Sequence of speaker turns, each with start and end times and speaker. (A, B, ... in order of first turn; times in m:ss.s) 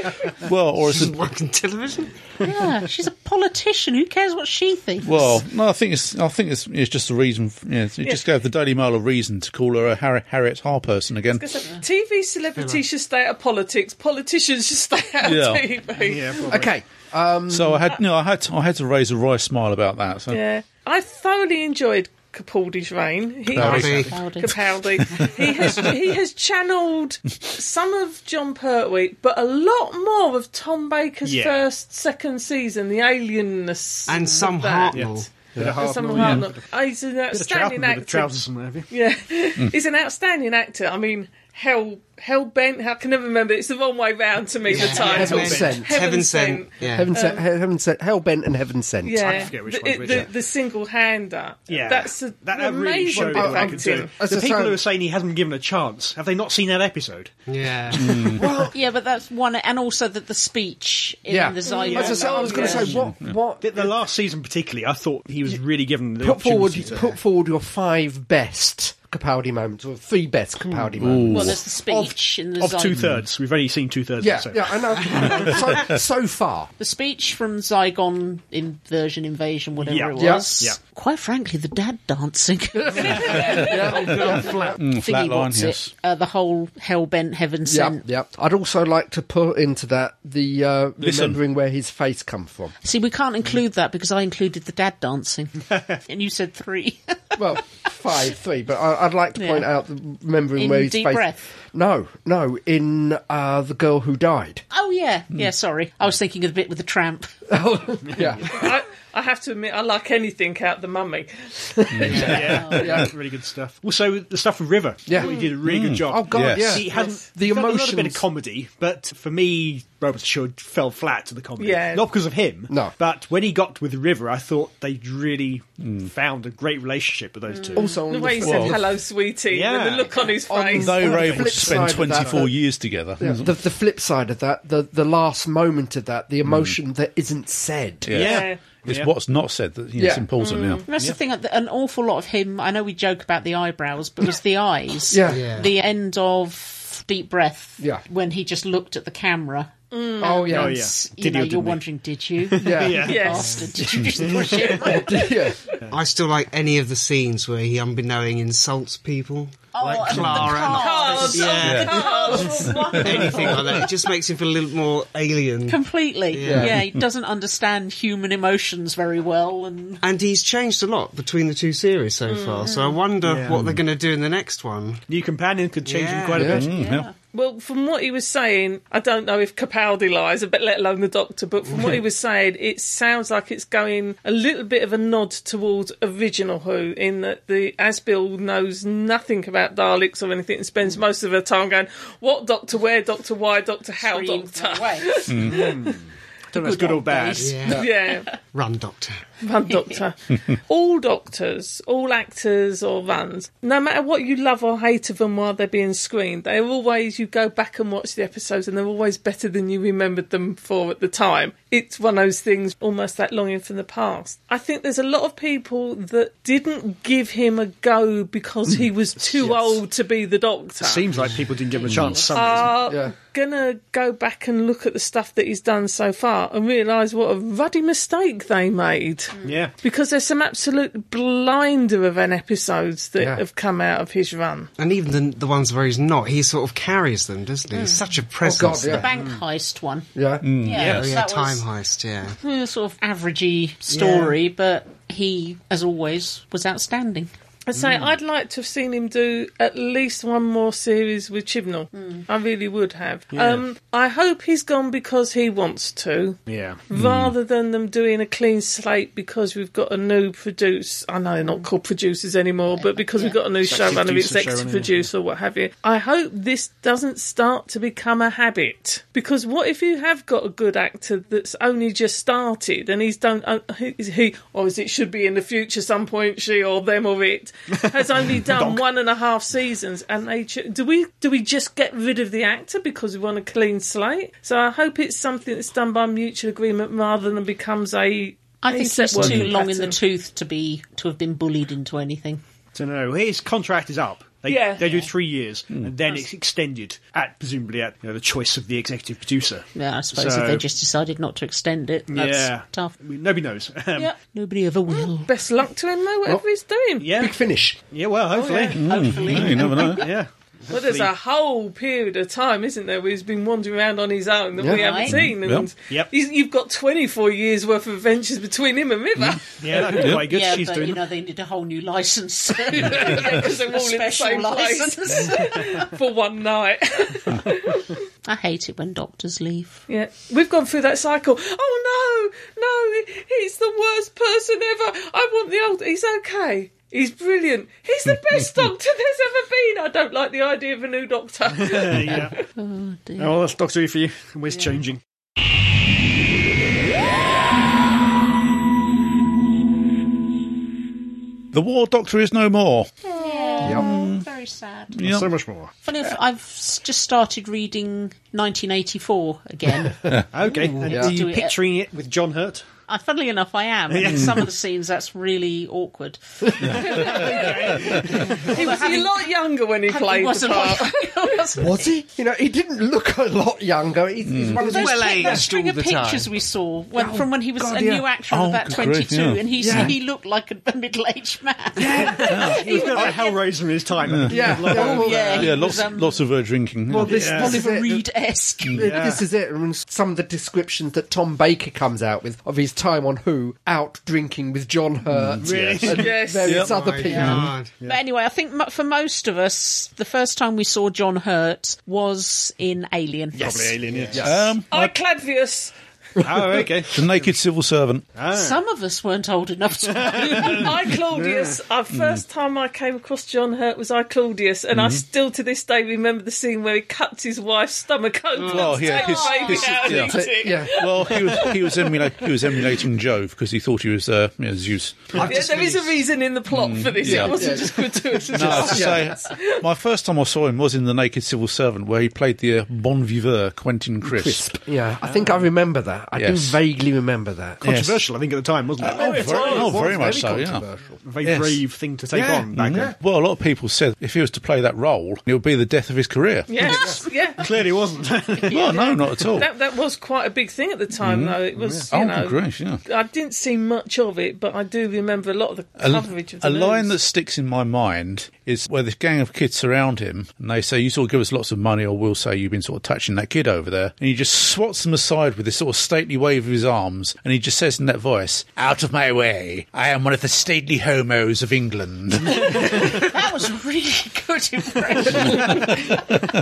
0:00.4-0:01.2 A
0:00.9-0:02.2 B
0:02.4-0:05.4 C
0:05.0-0:11.4 A
0:11.4-0:16.6 D
0:12.6-0:12.8 B
0:15.2-0:15.6 A
0:16.0-0:16.8 E
0:16.5-0:17.8 F
0:17.5-0:20.4 A
0:20.3-0:38.3 D
0:23.5-0:24.1 A
0:23.6-0:24.1 E
0:23.6-0:24.1 B
0:24.0-0:24.6 C
0:31.2-0:31.6 E
0:34.1-0:35.3 B
0:34.9-0:36.6 E
0:35.6-0:36.4 A
0:35.8-0:36.2 F
0:37.3-0:38.9 E
0:38.9-0:47.4 D
0:44.7-0:47.1 B
0:44.7-0:45.8 E
0:44.8-0:45.1 C
0:44.9-0:45.9 F
0:46.9-0:49.5 F
0:49.0-0:54.1 D
0:49.2-0:50.3 E
0:51.7-0:57.3 E
0:53.1-0:54.8 F
0:57.5-0:58.4 B
0:58.0-0:58.4 A
0:58.3-0:58.7 F
0:58.7-1:03.0 C
1:01.3-1:03.9 F
1:01.6-1:02.9 D
1:01.9-1:02.3 E
1:03.0-1:03.3 A
1:03.6-1:07.1 E
1:06.2-1:11.6 F
1:11.0-1:11.6 A
1:11.3-1:13.0 C
1:11.7-1:15.2 E
1:14.2-1:16.7 F
1:16.8-1:28.0 C
1:19.8-1:20.8 E
1:20.2-1:20.5 F
1:22.8-1:24.8 F
1:23.3-1:25.9 A
1:27.7-1:32.7 F
1:31.0-1:31.4 A
1:32.8-1:37.4 C
1:37.4-1:44.6 F
1:39.4-1:39.7 C
1:40.6-1:41.4 C
1:44.7-1:47.3 C
1:47.5-1:48.5 F
1:48.4-1:51.5 D
1:51.8-1:53.1 F
1:51.9-1:53.1 A
1:52.1-2:08.0 E
1:52.2-1:52.8 C
1:55.0-1:58.2 F
1:55.2-1:55.6 D
1:55.6-1:56.8 A
1:56.9-1:57.2 D
2:01.6-2:02.1 D
2:02.7-2:02.9 F
2:05.8-2:06.1 A
2:07.5-2:07.9 C
2:07.8-2:08.8 F
2:08.0-2:11.2 D
2:08.4-2:08.8 A
2:09.5-2:10.2 E
2:10.5-2:12.5 F
2:10.7-2:13.5 A
2:11.0-2:12.5 E
2:13.2-2:18.1 F
2:16.4-2:16.7 A
2:18.0-2:20.8 A
2:18.1-2:19.1 E
2:18.1-2:18.6 D
2:20.0-2:20.3 F
2:20.4-2:20.8 D
2:20.9-2:29.7 C
2:20.9-2:21.2 E
2:25.1-2:25.6 F
2:25.3-2:25.7 B
2:29.9-2:30.7 D
2:30.2-2:30.8 F
2:30.2-2:35.5 C
2:30.5-2:31.8 E
2:32.4-2:33.6 E
2:32.6-2:33.3 F
2:33.0-2:33.7 D
2:34.0-2:35.6 F
2:34.2-2:34.8 E
2:35.9-2:46.8 B
2:39.7-2:44.0 C
2:40.2-2:40.4 E
2:40.7-2:43.0 D
2:41.5-2:42.0 A
2:42.7-2:43.2 A
2:45.7-2:50.0 C
2:46.4-2:46.8 F
2:50.0-2:55.0 B
2:52.3-2:52.8 D
2:52.6-2:52.9 C
2:53.2-2:53.8 E
2:55.1-2:56.7 E
2:55.8-2:56.6 B
2:56.3-2:56.6 F
2:56.5-2:57.1 A
2:56.6-2:57.1 C
2:57.3-3:15.9 D
3:14.0-3:15.3 C
3:15.3-3:15.7 A
3:15.4-3:17.7 E
3:16.5-3:18.4 C
3:17.4-3:19.2 B
3:17.7-3:18.3 D
3:19.4-3:41.0 D
3:19.7-3:20.0 C
3:39.3-3:39.8 E
3:40.8-3:42.8 E
3:41.7-3:42.7 C
3:42.3-3:54.7 D
3:42.9-3:43.1 F
3:49.4-3:49.7 E
3:54.8-3:59.1 B
3:57.7-3:58.0 C
3:58.4-3:59.1 F
3:58.9-4:01.6 C
3:59.1-3:59.4 E
4:00.1-4:00.4 F
4:00.4-4:01.0 A
4:00.7-4:01.0 E
4:00.8-4:02.4 B
4:02.4-4:07.3 C
4:03.9-4:04.3 B
4:07.6-4:50.0 D
4:07.8-4:08.0 E
4:11.9-4:12.2 C
4:13.3-4:13.6 E
4:16.5-4:16.8 E
4:16.9-4:17.3 A
4:22.7-4:23.4 C
4:23.6-4:25.1 E
4:37.9-4:38.8 E
4:48.6-4:52.4 C
4:49.2-4:49.5 A
4:52.7-5:00.6 E
4:54.4-4:55.0 D
4:59.7-5:02.9 C
5:02.1-5:04.1 E
5:03.9-5:05.3 C
5:04.9-5:07.2 D
5:07.0-5:11.1 E
5:07.1-5:07.8 F
5:08.3-5:08.8 D
5:08.8-5:10.0 C
5:08.8-5:10.1 A
5:10.7-5:19.9 D
5:14.6-5:14.8 F
5:14.7-5:15.2 C
5:15.0-5:15.7 A
5:19.2-5:20.3 A
5:19.6-5:21.0 E
5:20.0-5:25.9 C
5:22.7-5:28.0 D
5:28.2-5:29.8 C
5:29.9-5:42.4 D
5:41.6-5:42.4 E
5:42.4-5:43.4 C
5:43.2-5:45.0 E
5:51.5-5:52.9 A
5:53.1-5:55.0 C
5:53.6-5:53.9 F
5:53.6-5:54.2 A
5:54.9-5:55.3 A
5:55.0-5:55.7 E
5:55.8-6:01.6 C
5:59.8-6:00.2 F
6:00.3-6:02.6 E
6:00.8-6:01.1 F
6:02.9-6:09.3 C
6:03.9-6:04.4 E
6:06.6-6:07.5 A
6:06.8-6:08.5 E
6:06.8-6:11.3 D
6:09.9-6:11.9 C
6:11.6-6:15.5 F
6:14.2-6:14.6 A
6:14.6-6:16.3 B
6:14.6-6:23.3 C
6:16.9-6:18.1 F
6:18.3-6:19.9 A
6:19.6-6:19.9 F
6:21.8-6:25.6 E
6:22.2-6:22.7 A
6:22.6-6:23.3 D
6:24.1-6:24.6 A
6:24.3-6:25.6 F
6:24.7-6:26.2 C
6:25.3-6:27.3 A
6:26.9-6:27.6 E
6:26.9-6:28.0 F
6:27.0-6:28.9 C
6:28.7-6:37.5 F
6:28.8-6:29.2 E
6:35.1-6:37.5 A
6:35.4-6:36.1 E
6:35.9-6:36.6 D
6:36.6-6:37.7 B
6:37.0-6:43.8 C
6:43.4-6:44.4 F
6:43.4-6:44.8 E
6:44.2-6:44.7 A
6:44.7-6:45.7 D
6:46.2-6:47.3 E
6:46.9-6:48.1 A
6:48.1-6:48.6 E
6:48.3-6:50.7 C
6:49.8-6:51.5 E
6:50.3-7:02.8 D
6:51.9-6:52.2 A
6:54.7-6:55.0 A
6:58.4-6:59.0 B
6:58.4-7:05.2 A
6:58.8-6:59.9 C
7:00.1-7:00.8 F
7:05.2-7:05.9 B
7:05.2-7:09.6 D
7:06.5-7:07.4 A
7:07.0-7:09.1 F
7:08.3-7:14.5 A
7:14.0-7:17.6 F
7:15.0-7:15.4 E
7:16.2-7:16.6 A
7:17.6-7:20.3 E
7:17.6-7:18.0 A
7:18.8-7:20.6 A
7:19.0-7:21.0 F
7:19.2-7:19.8 D
7:21.0-7:22.9 E
7:21.2-7:21.6 A
7:22.1-7:22.9 F
7:22.5-7:26.8 A
7:26.5-7:27.4 D
7:26.8-7:28.8 E
7:28.5-7:29.5 A
7:28.5-7:36.9 D
7:28.6-7:28.9 C
7:31.0-7:32.8 A
7:31.6-7:31.9 E
7:35.8-7:53.0 A
7:52.4-7:56.0 C
7:55.2-7:56.1 E